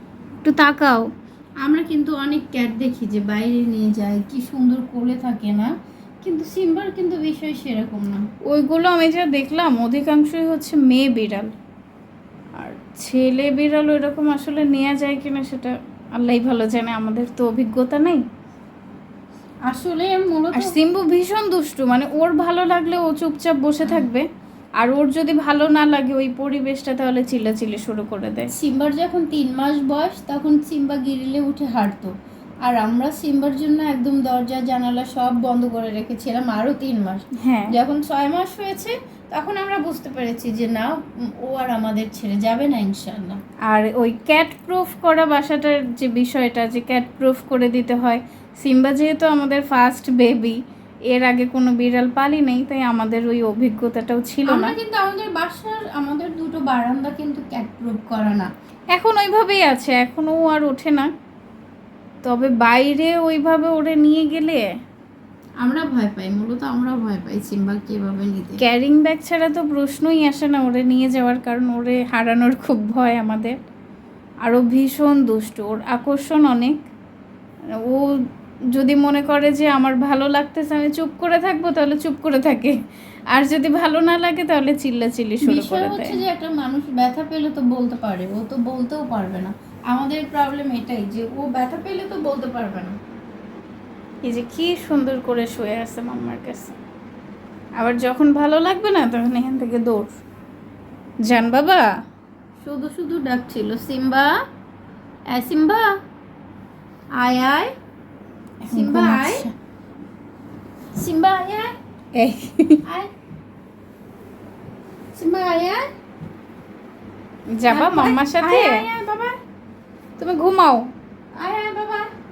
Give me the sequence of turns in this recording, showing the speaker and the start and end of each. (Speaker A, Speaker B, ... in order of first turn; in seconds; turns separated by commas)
Speaker A: 0.4-1.1, Speaker B: 1.6-5.7, Speaker B: 6.2-8.2, Speaker A: 8.4-11.5, Speaker A: 12.6-18.2, Speaker B: 19.7-20.7, Speaker A: 20.5-24.2, Speaker A: 24.8-28.5, Speaker B: 28.5-32.1, Speaker B: 32.6-43.4, Speaker A: 37.4-37.7, Speaker A: 43.7-50.6, Speaker A: 51.1-54.7, Speaker B: 54.5-58.5, Speaker A: 58.9-61.1, Speaker A: 62.2-64.6, Speaker B: 65.6-68.6, Speaker A: 68.6-73.5, Speaker A: 74.4-76.8, Speaker A: 77.8-78.2, Speaker A: 78.7-82.8, Speaker A: 83.3-86.2, Speaker B: 85.4-92.9, Speaker A: 94.2-96.8, Speaker A: 97.8-100.2, Speaker A: 101.2-101.8, Speaker B: 102.6-104.3, Speaker B: 105.3-105.9, Speaker B: 107.2-107.7, Speaker A: 108.6-109.5, Speaker B: 108.7-109.5, Speaker B: 111.0-111.7, Speaker A: 112.2-112.8, Speaker B: 115.1-115.8, Speaker A: 117.5-118.8, Speaker B: 117.7-119.3, Speaker A: 120.2-120.9, Speaker B: 121.3-122.1